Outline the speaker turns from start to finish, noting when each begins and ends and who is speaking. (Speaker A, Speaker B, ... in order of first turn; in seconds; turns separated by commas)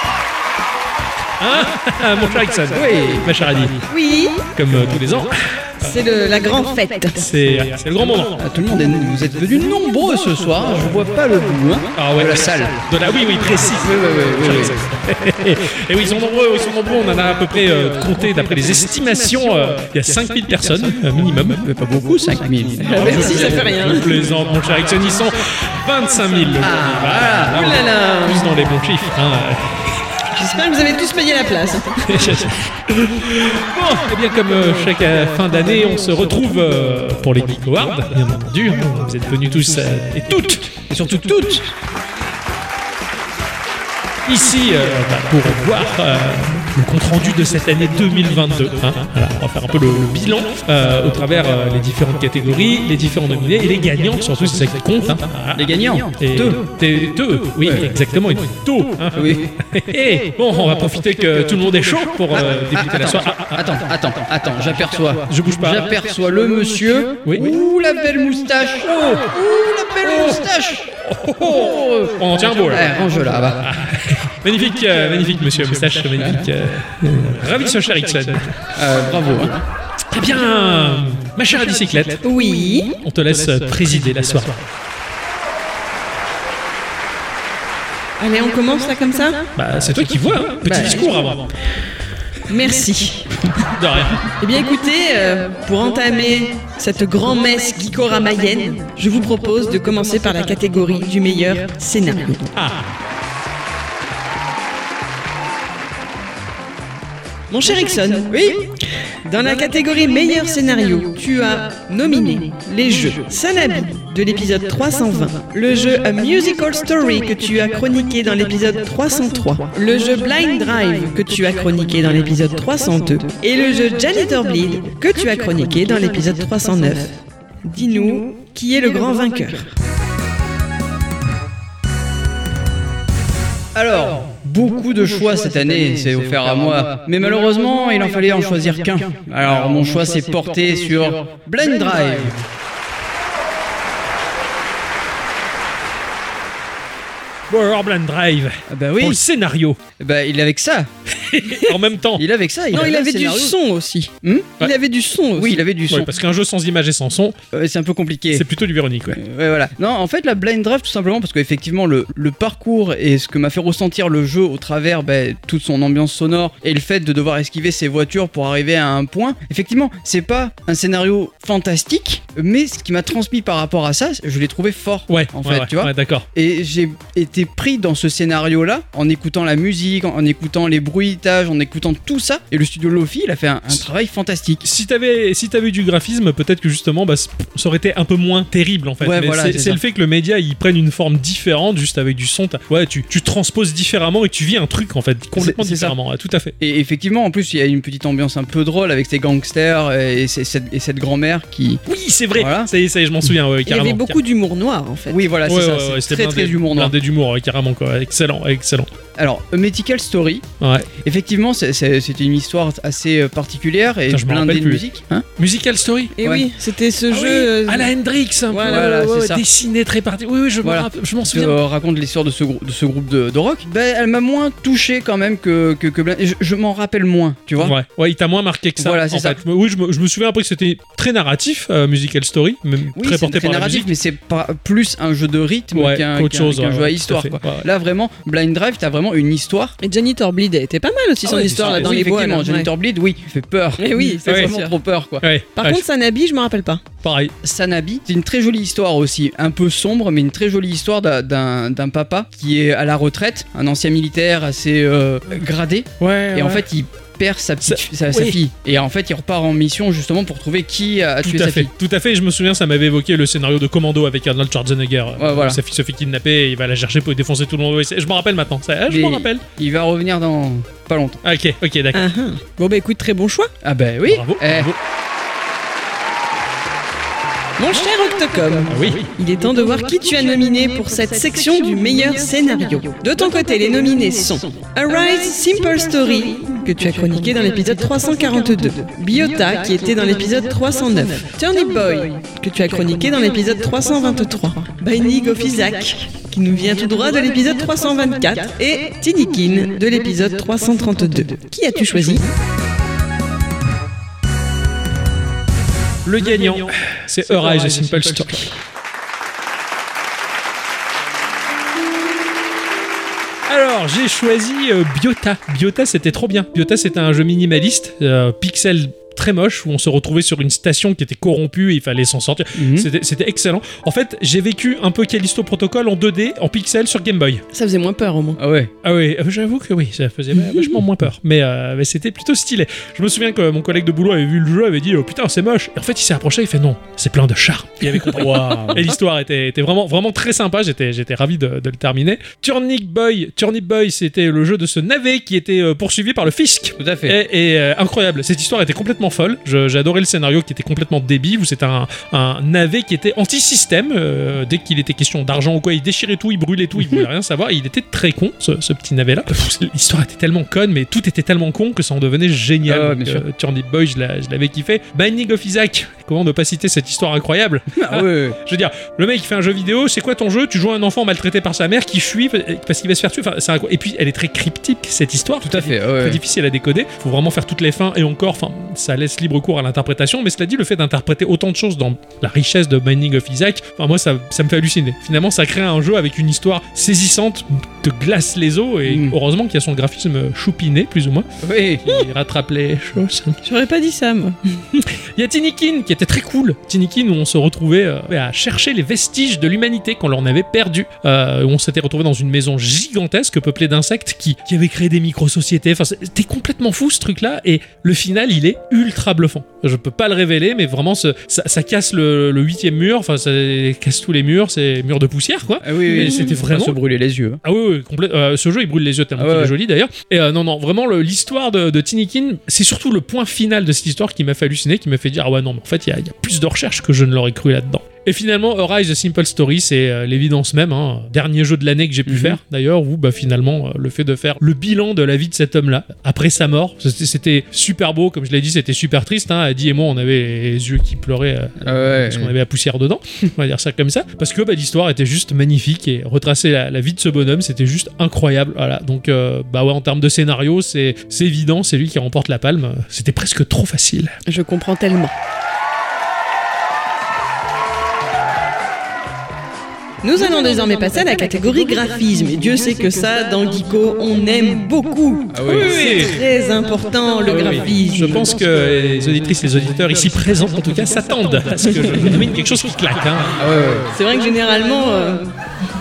Speaker A: 1.4-3.9, Speaker B: 2.7-3.3, Speaker C: 3.9-4.5, Speaker A: 4.5-6.0, Speaker C: 5.8-7.3, Speaker A: 7.2-8.4, Speaker B: 8.4-12.8, Speaker A: 12.0-21.6, Speaker B: 13.8-14.8, Speaker B: 21.5-23.9, Speaker C: 22.8-24.1, Speaker A: 22.9-30.1, Speaker B: 26.6-27.7, Speaker C: 27.5-28.5, Speaker C: 30.3-32.3, Speaker A: 32.1-40.8, Speaker B: 40.8-41.7, Speaker A: 44.2-63.9, Speaker B: 55.5-56.6, Speaker B: 57.6-57.9, Speaker B: 59.1-59.5, Speaker B: 62.7-73.7, Speaker A: 65.3-66.0, Speaker A: 67.2-67.5, Speaker A: 71.0-72.9, Speaker A: 73.6-78.7, Speaker B: 76.2-76.5, Speaker B: 78.7-79.6, Speaker A: 80.1-82.2, Speaker C: 82.2-83.0, Speaker A: 83.0-84.7, Speaker C: 88.2-89.5, Speaker A: 89.6-91.5, Speaker C: 90.7-91.2, Speaker C: 92.5-93.7, Speaker A: 93.6-94.3, Speaker C: 94.3-102.5, Speaker A: 102.6-102.9, Speaker C: 107.5-108.4, Speaker B: 108.3-108.7, Speaker C: 109.2-129.7, Speaker B: 133.8-142.5, Speaker A: 147.5-149.8, Speaker B: 148.7-149.2, Speaker B: 150.0-150.9, Speaker A: 151.1-152.2, Speaker C: 151.4-151.7, Speaker B: 152.2-153.6, Speaker C: 152.7-155.6, Speaker B: 154.2-154.6, Speaker B: 155.3-156.1, Speaker A: 155.9-157.4, Speaker B: 157.5-158.5, Speaker A: 158.3-159.2, Speaker B: 159.1-184.7, Speaker A: 175.1-176.3, Speaker A: 184.6-196.5, Speaker B: 189.0-189.8, Speaker B: 195.4-196.0, Speaker B: 196.6-201.8, Speaker A: 201.9-204.2, Speaker B: 202.3-202.7, Speaker C: 203.7-205.2, Speaker B: 205.1-206.9, Speaker A: 205.4-208.9, Speaker B: 209.2-210.5, Speaker A: 210.6-210.9, Speaker B: 211.0-215.3, Speaker A: 214.1-214.8, Speaker A: 215.4-216.1, Speaker C: 216.2-217.9, Speaker B: 216.2-216.5, Speaker A: 217.1-221.6, Speaker C: 218.5-219.0, Speaker B: 218.6-219.4, Speaker B: 220.6-227.8, Speaker A: 227.6-233.9, Speaker B: 228.8-229.4, Speaker B: 232.9-239.8, Speaker A: 235.7-237.7, Speaker C: 239.8-242.7, Speaker B: 241.3-245.2, Speaker A: 241.3-242.0, Speaker C: 243.8-244.7, Speaker A: 244.3-244.5, Speaker A: 245.2-245.8, Speaker C: 245.6-246.8, Speaker A: 247.0-247.3, Speaker B: 247.4-261.7, Speaker A: 256.0-256.7, Speaker A: 257.6-258.4, Speaker A: 261.2-269.4, Speaker B: 265.2-265.6, Speaker B: 268.9-271.2, Speaker A: 271.2-272.0, Speaker C: 271.9-273.5, Speaker B: 273.6-274.7, Speaker A: 274.1-274.8, Speaker C: 277.6-302.3, Speaker A: 278.7-279.1, Speaker A: 306.1-308.5, Speaker A: 313.5-327.4, Speaker B: 322.6-322.9, Speaker C: 327.5-328.4, Speaker B: 328.4-328.7, Speaker A: 328.8-391.3, Speaker C: 330.4-330.8, Speaker C: 337.9-338.9, Speaker B: 338.4-338.9, Speaker B: 346.8-347.2, Speaker B: 362.6-363.2, Speaker B: 367.8-368.4, Speaker B: 375.4-376.2, Speaker B: 388.9-389.1, Speaker B: 391.4-391.9, Speaker A: 391.9-393.4, Speaker C: 393.4-394.9, Speaker A: 395.0-416.8, Speaker B: 415.6-417.4, Speaker A: 417.4-454.1, Speaker B: 419.2-419.5, Speaker B: 432.1-432.4, Speaker B: 441.6-442.3, Speaker C: 454.3-455.1, Speaker C: 460.0-468.3, Speaker B: 465.3-465.9, Speaker A: 465.4-466.2, Speaker B: 467.3-467.6, Speaker A: 467.5-473.4, Speaker B: 473.4-473.9, Speaker C: 473.9-475.3